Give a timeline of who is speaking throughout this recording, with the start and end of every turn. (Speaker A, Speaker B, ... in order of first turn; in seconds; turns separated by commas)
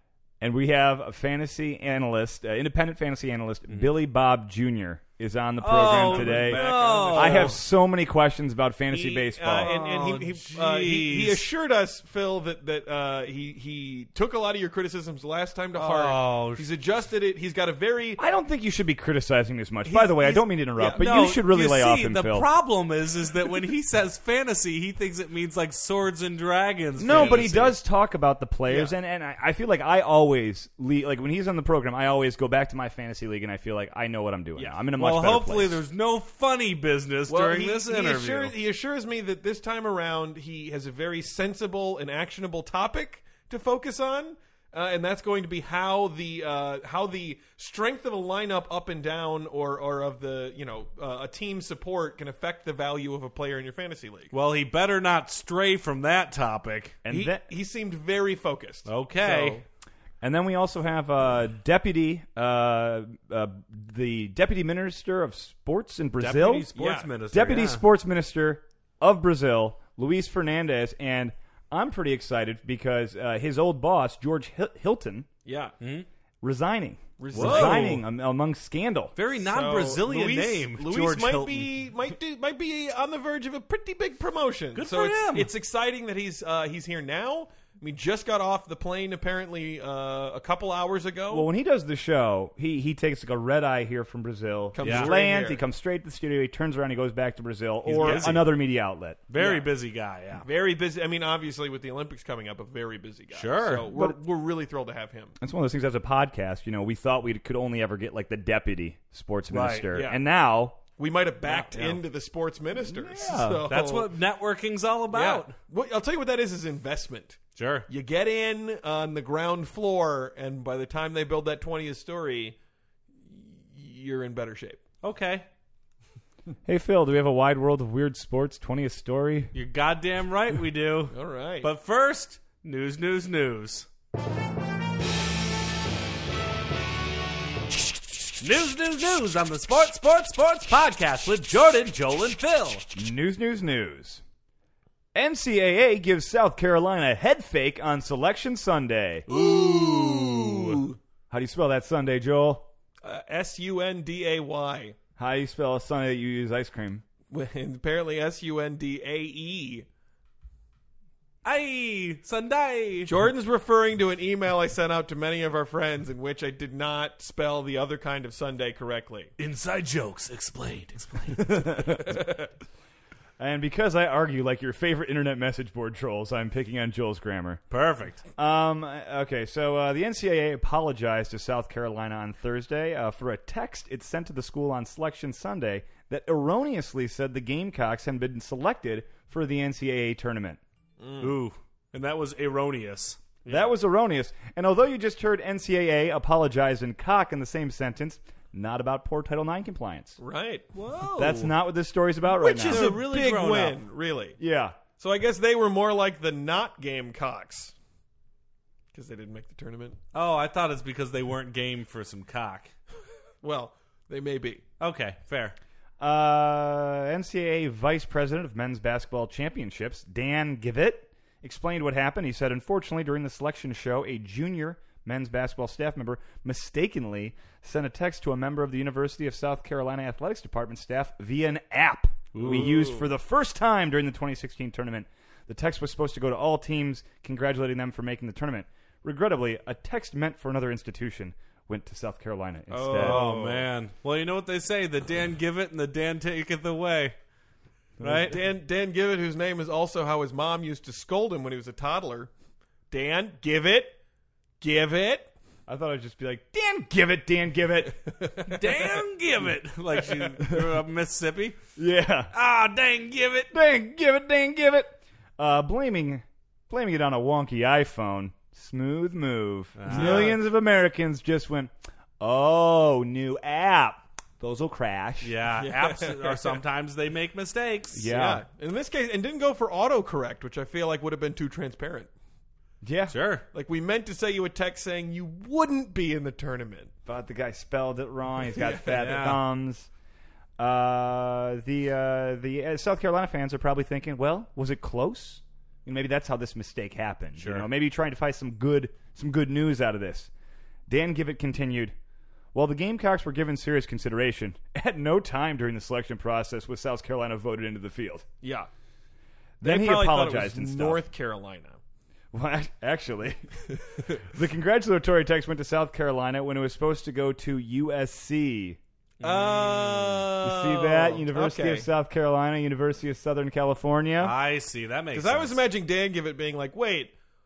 Speaker A: 0.4-9.7, Speaker B: 5.6-7.6, Speaker C: 5.7-7.6, Speaker C: 8.9-18.2, Speaker B: 9.6-11.5, Speaker B: 15.8-16.6, Speaker A: 18.2-22.5, Speaker C: 19.8-21.0, Speaker B: 21.0-27.8, Speaker A: 27.0-35.8, Speaker C: 27.1-27.5, Speaker C: 28.7-28.9, Speaker B: 35.0-38.5, Speaker C: 37.3-54.3, Speaker B: 54.3-57.0, Speaker A: 57.0-57.4, Speaker C: 57.1-59.6, Speaker B: 58.9-59.6, Speaker A: 60.2-66.7, Speaker B: 66.2-67.8, Speaker C: 66.8-67.1, Speaker A: 67.3-75.3, Speaker C: 75.5-75.7, Speaker B: 75.8-76.1, Speaker A: 76.4-79.2, Speaker C: 77.2-78.0, Speaker B: 77.3-78.0, Speaker B: 79.2-81.7, Speaker C: 79.4-91.5, Speaker B: 84.8-85.5, Speaker A: 91.3-99.2, Speaker C: 94.7-95.6, Speaker B: 94.8-95.1, Speaker B: 97.8-98.5, Speaker C: 97.9-98.5, Speaker B: 99.3-100.5, Speaker C: 99.4-99.7, Speaker C: 100.4-105.3, Speaker B: 103.3-103.9, Speaker A: 105.4-110.8, Speaker B: 109.5-110.0, Speaker C: 109.9-110.2, Speaker C: 111.0-114.1, Speaker A: 111.5-111.9, Speaker A: 112.8-113.7, Speaker B: 113.7-115.5, Speaker C: 115.1-122.6, Speaker B: 117.6-117.9, Speaker C: 123.3-124.8, Speaker B: 125.0-125.5, Speaker A: 126.7-129.5, Speaker B: 129.5-133.9, Speaker C: 131.1-131.7, Speaker B: 138.4-142.9, Speaker A: 142.9-144.2, Speaker A: 145.2-149.3, Speaker C: 149.3-151.0, Speaker B: 149.3-150.7, Speaker A: 151.3-152.7, Speaker C: 153.0-155.0, Speaker A: 155.2-157.0, Speaker C: 157.3-159.9, Speaker B: 161.4-163.1, Speaker C: 163.1-169.3, Speaker B: 169.4-171.8, Speaker A: 171.4-172.2, Speaker C: 172.1-172.4, Speaker A: 173.4-177.6, Speaker B: 177.7-178.2, Speaker A: 178.4-190.6, Speaker C: 191.0-191.4, Speaker B: 191.2-193.7, Speaker A: 193.5-200.2, Speaker C: 200.2-200.7, Speaker B: 200.7-201.5, Speaker A: 201.2-202.9, Speaker C: 202.3-204.4, Speaker B: 202.6-203.8, Speaker A: 204.4-204.8, Speaker C: 205.0-207.7, Speaker C: 208.9-210.0, Speaker B: 210.1-212.7, Speaker C: 213.4-214.6, Speaker B: 214.8-215.6, Speaker A: 216.0-243.3, Speaker B: 232.3-232.9, Speaker C: 232.4-233.1, Speaker B: 242.7-247.2, Speaker C: 242.8-243.7, Speaker B: 248.0-248.4, Speaker C: 248.1-252.3, Speaker C: 252.9-254.0, Speaker C: 254.6-255.3, Speaker A: 255.7-258.1, Speaker C: 258.1-259.0, Speaker B: 258.5-261.6, Speaker A: 261.8-262.3, Speaker B: 262.3-263.5, Speaker A: 263.5-275.3, Speaker B: 269.8-270.3, Speaker C: 269.9-270.4, Speaker B: 275.2-278.1, Speaker C: 275.6-276.6, Speaker A: 277.9-278.4, Speaker C: 278.1-282.1, Speaker A: 282.8-283.1, Speaker B: 283.1-283.4, Speaker C: 283.5-286.9, Speaker A: 287.1-289.9, Speaker C: 288.6-288.9, Speaker B: 288.9-289.4, Speaker A: 290.6-300.3, Speaker B: 297.4-297.7, Speaker A: 300.9-301.9, Speaker A: 302.5-308.3, Speaker C: 308.4-308.7, Speaker A: 309.6-311.0, Speaker C: 309.6-311.8, Speaker A: 312.3-313.5, Speaker A: 314.2-318.8, Speaker B: 319.2-320.3, Speaker C: 319.2-321.9, Speaker A: 320.4-324.3, Speaker B: 324.2-325.6, Speaker C: 325.1-327.1